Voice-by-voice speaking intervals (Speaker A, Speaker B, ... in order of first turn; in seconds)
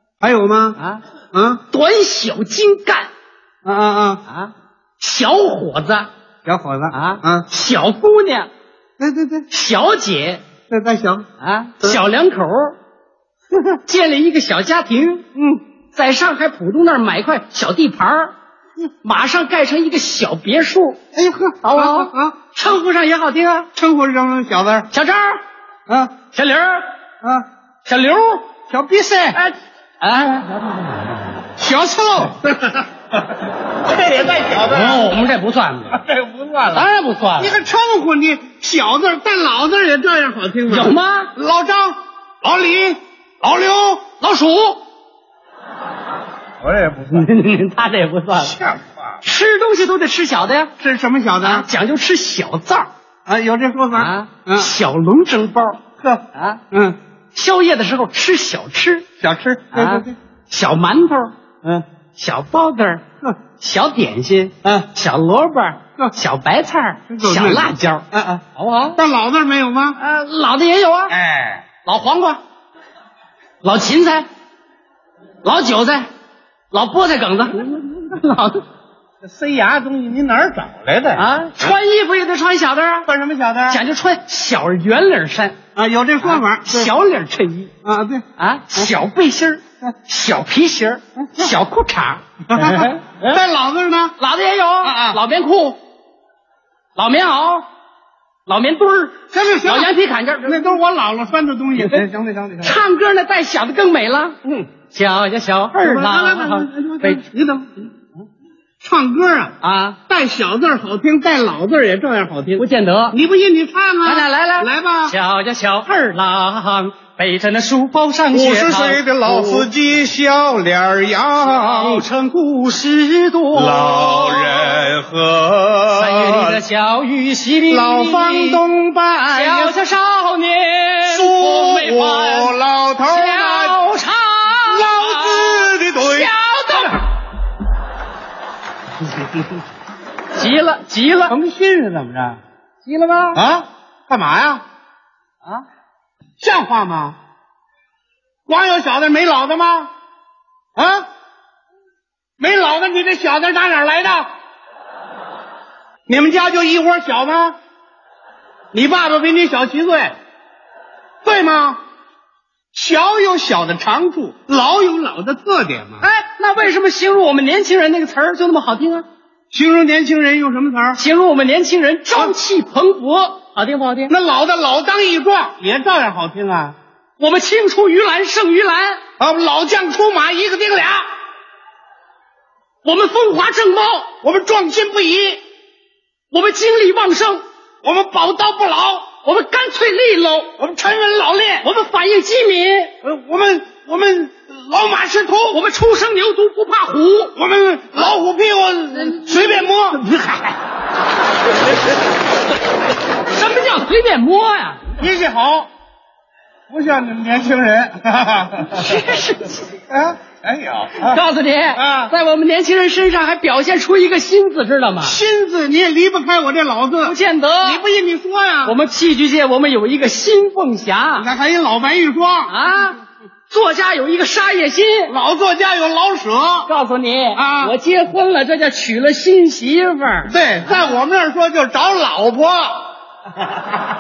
Speaker A: 0.2-0.8, 1.3-1.6, 3.6-4.2, 6.5-7.5, 9.0-9.5, 10.7-11.3, 21.1-22.4, 23.7-24.9, 25.9-26.1, 28.7-29.4, 31.6-35.2, 35.9-36.9, 37.4-44.0, 46.6-47.3, 48.4-49.2, 50.8-51.7, 53.3-54.7, 56.0-57.0, 59.2-60.2, 67.1-68.4, 69.0-70.0, 71.1-71.7, 79.2-81.7, 83.1-83.8, 85.8-87.0, 87.8-88.9, 91.2-91.5, 92.5-94.2, 94.8-95.2, 99.3-99.9, 100.5-102.8, 105.8-107.9, 108.8-109.5, 110.1-115.2, 118.3-122.1, 123.5-126.6, 127.7-129.8, 131.0-133.8, 134.5-136.9, 141.3-142.4, 143.3-144.6, 146.4-147.2, 148.5-149.9, 150.8-151.1, 152.4-154.3, 156.1-157.6, 158.7-160.1, 161.2-161.8, 162.7-166.0, 169.5-171.0, 174.1-176.8, 179.2-181.1, 184.2-185.4, 187.8-189.1, 190.6-191.6, 193.0-195.6, 197.4-200.1, 205.0-205.7, 206.7-208.9, 209.9-211.2, 211.7-212.1, 215.0-218.8, 221.2-222.5, 225.1-226.7, 227.3-227.8, 230.3-232.9
Speaker B: 0.8-1.0, 1.7-3.1, 4.3-6.1, 6.9-8.5, 9.5-10.4, 11.4-12.8, 13.8-15.3, 15.9-18.4, 19.0-21.0, 21.6-23.7, 24.9-25.4, 26.3-26.9, 27.8-28.5, 29.3-31.5, 34.7-36.0, 36.7-37.5, 40.7-41.3, 44.0-44.8, 47.1-48.6, 49.2-50.7, 51.4-52.9, 53.9-56.6, 57.3-59.1, 59.7-61.3, 62.1-69.0, 70.0-71.2, 71.8-72.4, 73.6-74.3, 75.4-76.1, 76.7-78.6, 81.2-83.1, 83.7-85.6, 86.2-87.7, 88.4-93.4, 94.2-95.8, 97.0-97.7, 98.5-100.7, 101.8-102.0, 102.6-107.2, 109.6-110.0, 112.6-113.2, 114.0-119.7, 121.4-124.8, 126.0-128.6, 129.3-137.1, 140.3-141.4, 142.8-143.4, 166.0-169.1, 170.9-174.1, 177.2-179.0, 182.8-184.1, 186.3-187.4, 189.2-190.6, 191.6-192.9, 195.5-197.3, 198.9-200.5, 203.2-204.9, 208.7-209.7, 211.0-215.2, 217.0-217.8, 218.6-221.3, 222.5-225.2, 226.7-230.3